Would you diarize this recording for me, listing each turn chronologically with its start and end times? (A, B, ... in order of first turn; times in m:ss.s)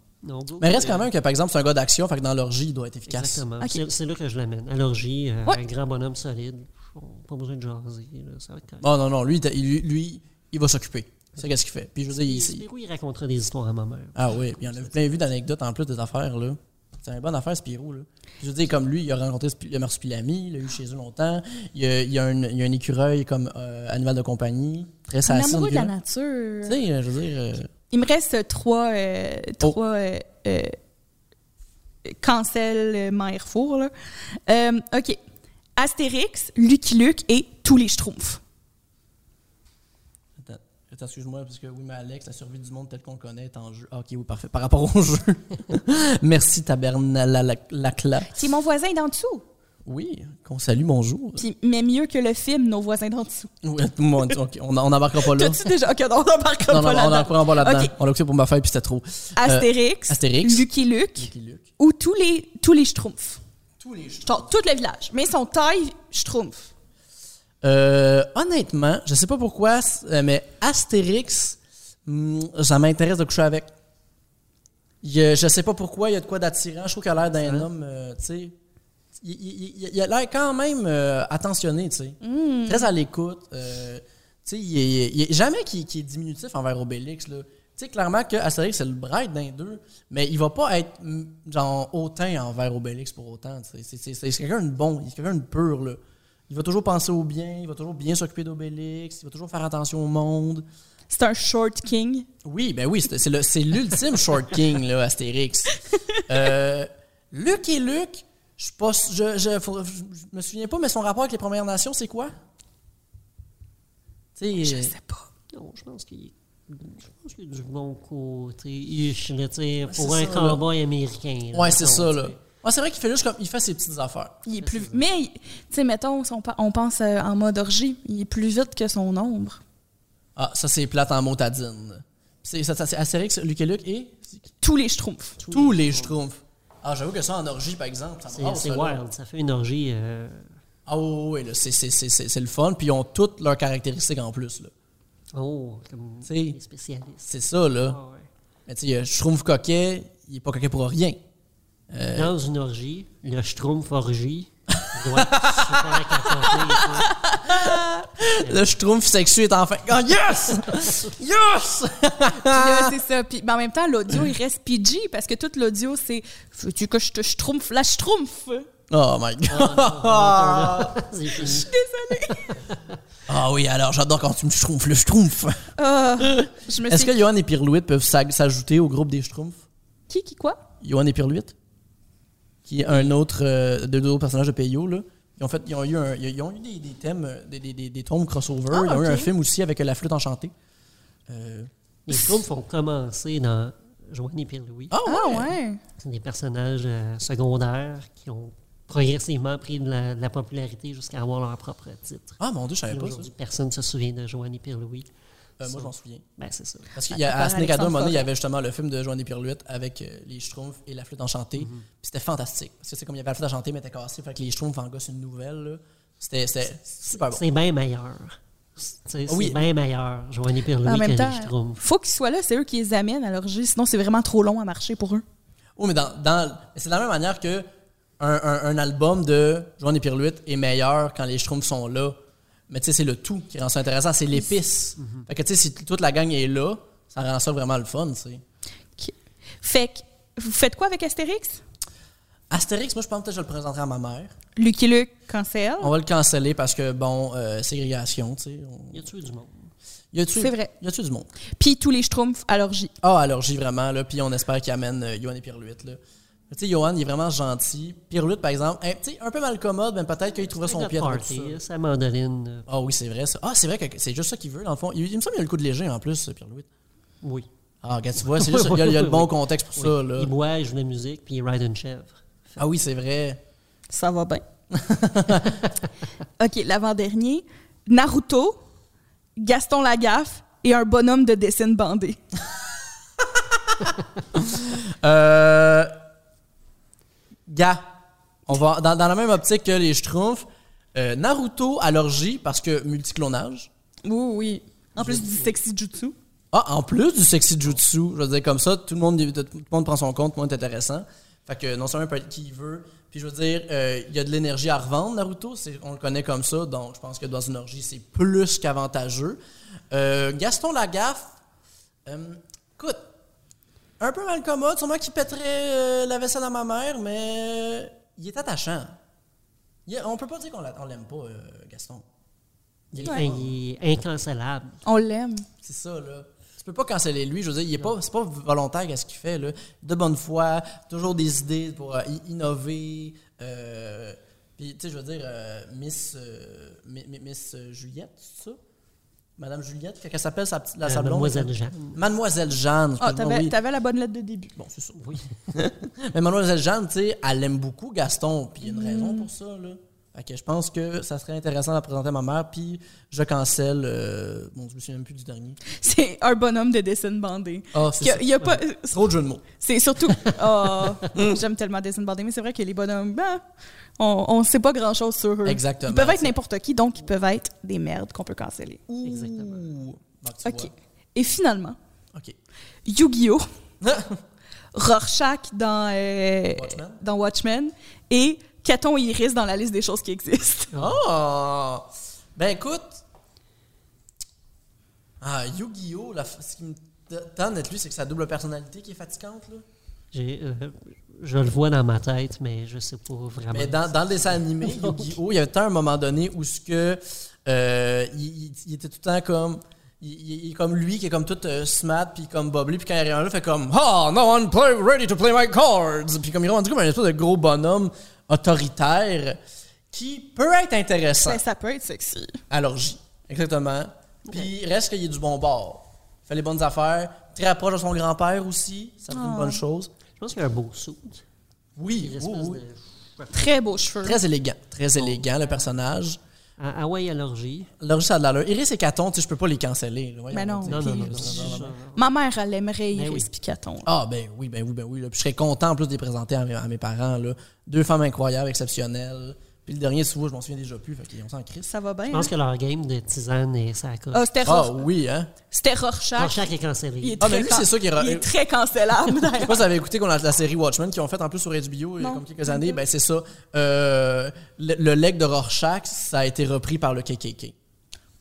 0:00.2-0:01.1 A
0:00.6-0:03.4 B
0:03.1-0:08.8 A
0:08.8-0:12.6 B
0:12.1-0:15.2 A
0:14.1-0:25.9 B
0:25.2-0:26.8 C
0:26.6-0:27.7 B
0:27.9-0:30.8 C
0:32.0-0:33.9 C
0:34.5-0:35.2 C
0:35.8-0:38.4 C
0:40.4-0:48.3 B
0:48.3-0:49.4 C
0:49.8-0:51.4 B
0:51.4-0:53.5 C
0:53.6-0:55.6 B
0:55.2-0:57.9 C
0:56.7-1:00.6 B
0:59.4-1:03.4 C
1:01.2-1:01.7 B
1:03.8-1:04.5 B
1:04.2-1:06.7 C
1:07.6-1:13.7 B
1:15.0-1:18.5 B
1:17.3-1:17.7 A
1:19.2-1:40.6 B
1:22.2-1:22.9 C
1:41.1-1:42.3 C
1:42.4-1:52.3 B
1:54.4-1:54.9 B
1:54.6-1:55.3 C
1:55.5-2:02.4 A
1:59.9-2:00.6 B
2:01.5-2:04.4 B
2:04.4-2:09.6 C
2:04.6-2:05.0 A
2:10.4-2:14.5 B
2:14.6-2:15.4 C
2:15.4-2:16.1 A
2:15.5-2:19.0 B
2:18.3-2:20.5 A
2:20.9-2:24.7 B
2:25.3-2:28.3 A
2:26.3-2:26.6 B
2:27.2-2:28.0 B
2:28.7-2:31.2 B
2:31.9-2:32.3 B
2:32.1-2:37.2 A
2:34.7-2:43.0 B
2:37.1-2:37.4 C
2:38.3-2:38.6 A
2:40.7-2:41.1 A
2:42.4-2:48.7 C
2:48.9-2:51.0 B
2:49.5-2:51.7 A
2:51.4-2:52.6 C
2:52.3-2:53.0 A
2:53.3-2:55.6 B
2:55.8-2:57.2 C
2:56.2-2:59.6 B
3:00.1-3:00.6 C
3:00.8-3:01.5 B
3:02.6-3:10.5 B
3:08.7-3:09.3 C
3:11.3-3:11.7 B
3:12.0-3:14.9 A
3:14.9-3:15.5 B
3:15.0-3:15.8 C
3:16.0-3:22.4 A
3:22.4-3:23.3 B
3:22.9-3:26.9 A
3:25.6-3:26.2 B
3:26.9-3:37.4 B
3:27.0-3:28.3 C
3:31.6-3:31.8 A
3:37.1-3:41.8 A
3:39.3-3:39.7 B
3:40.8-3:45.2 C
3:45.8-3:47.6 B
3:48.2-3:52.2 B
3:52.7-3:58.4 B
3:55.0-3:55.2 A
3:59.0-4:01.6 C
4:02.5-4:04.3 B
4:04.6-4:05.9 C
4:05.8-4:09.1 B
4:08.9-4:09.7 A
4:10.1-4:11.3 B
4:10.3-4:10.7 C
4:11.6-4:12.9 C
4:13.0-4:16.0 B
4:16.5-4:21.6 B
4:20.6-4:22.6 A
4:22.7-4:26.7 B
4:27.2-4:27.5 A
4:27.8-4:30.3 B
4:28.3-4:32.6 A
4:32.6-4:33.4 B
4:33.9-4:34.4 C
4:34.7-4:35.7 B
4:36.4-4:38.6 C
4:39.4-4:42.2 C
4:43.2-4:43.7 B
4:44.3-4:45.9 B
4:47.5-4:47.9 B
4:48.5-4:53.7 B
4:54.0-4:56.1 C
4:55.0-4:55.2 B
4:56.5-5:09.4 B
5:09.9-5:11.3 B
5:12.0-5:13.0 B
5:14.0-5:18.9 B
5:19.8-5:22.0 B
5:22.9-5:23.5 B
5:23.0-5:24.8 A
5:23.0-5:23.3 C
5:24.8-5:25.4 C
5:25.6-5:38.6 B
5:39.4-5:43.5 B
5:40.8-5:42.0 A
5:43.0-5:44.5 C
5:44.6-5:55.6 B
5:45.0-5:45.2 A
5:48.6-5:49.3 C
5:55.7-5:59.0 C
5:57.7-5:59.4 B
5:59.6-6:03.4 C
6:00.1-6:00.4 B
6:01.0-6:01.3 B
6:04.0-6:08.8 C
6:05.4-6:06.3 B
6:08.9-6:10.7 B
6:09.0-6:09.6 A
6:10.4-6:11.8 C
6:12.8-6:13.5 C
6:13.8-6:14.2 B
6:14.7-6:20.7 C
6:16.6-6:17.0 B
6:20.7-6:23.0 B
6:25.2-6:29.6 B
6:30.1-6:35.2 A
6:33.5-6:49.4 B
6:49.9-6:51.4 B
6:51.2-6:52.4 C
6:52.5-6:59.9 B
6:59.1-6:59.6 C
7:00.2-7:01.2 A
7:01.8-7:02.6 B
7:02.0-7:03.5 A
7:03.3-7:04.2 C
7:04.0-7:06.2 B
7:05.0-7:05.6 A
7:06.6-7:07.7 A
7:07.8-7:11.8 B
7:10.3-7:13.9 C
7:10.6-7:12.0 A
7:12.9-7:13.3 A
7:13.8-7:21.7 B
7:21.6-7:22.3 C
7:22.1-7:24.2 A
7:24.1-7:24.9 C
7:24.4-7:25.3 B
7:25.5-7:26.4 C
7:26.2-7:27.5 A
7:27.0-7:29.6 C
7:27.2-7:28.3 B
7:29.3-7:37.5 B
7:32.0-7:32.8 C